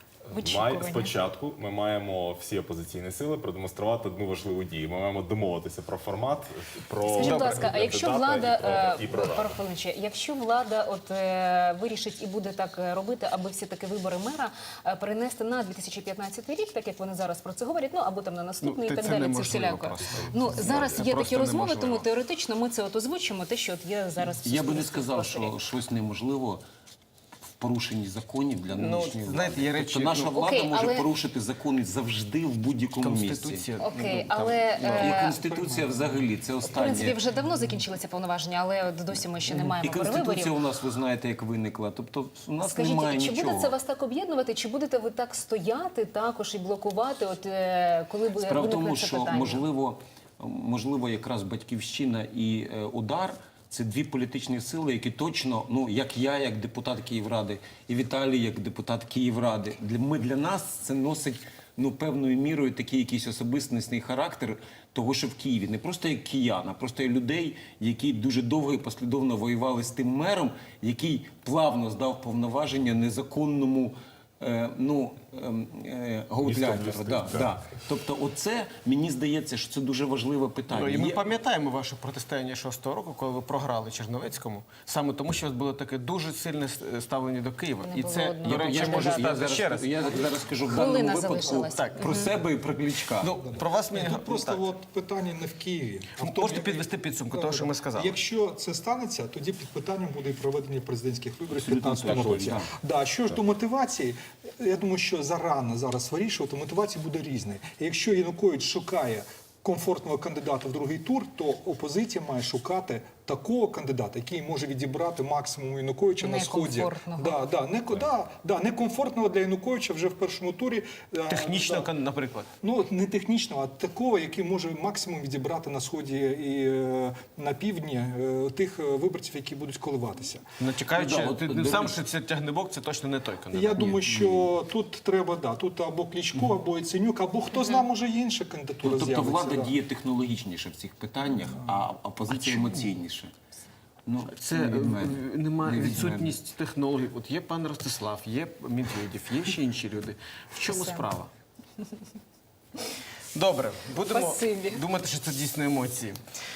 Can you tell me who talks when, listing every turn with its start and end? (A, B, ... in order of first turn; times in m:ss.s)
0:00.3-0:01.1 A
0:00.3-0:09.6 B
0:07.1-0:25.5 A
0:07.2-0:07.6 C
0:18.6-0:22.0 C
0:20.6-0:21.1 D
0:24.4-0:26.6 D
0:27.6-0:33.7 D
0:28.7-0:30.4 C
0:30.3-0:31.1 A
0:33.0-0:35.6 C
0:33.8-0:35.4 A
0:34.8-0:37.2 D
0:36.6-0:40.6 A
0:39.8-0:43.8 D
0:42.6-0:49.6 A
0:48.4-1:21.2 D
1:16.4-1:17.5 B
1:20.7-1:30.3 C
1:27.8-1:29.3 A
1:28.4-1:33.4 D
1:30.6-1:32.3 A
1:31.8-1:32.3 C
1:33.0-1:34.7 C
1:33.6-2:01.9 E
1:36.2-1:38.2 C
1:41.5-1:42.7 D
1:56.2-1:57.4 A
2:01.3-2:02.5 C
2:02.6-2:10.4 E
2:10.6-2:14.5 C
2:10.9-2:12.0 D
2:13.5-2:19.8 E
2:18.8-2:23.3 D
2:22.3-2:22.9 C
2:24.1-2:26.4 D
2:24.4-2:31.3 C
2:30.7-2:31.0 A
2:33.4-2:36.2 C
2:34.1-2:34.8 A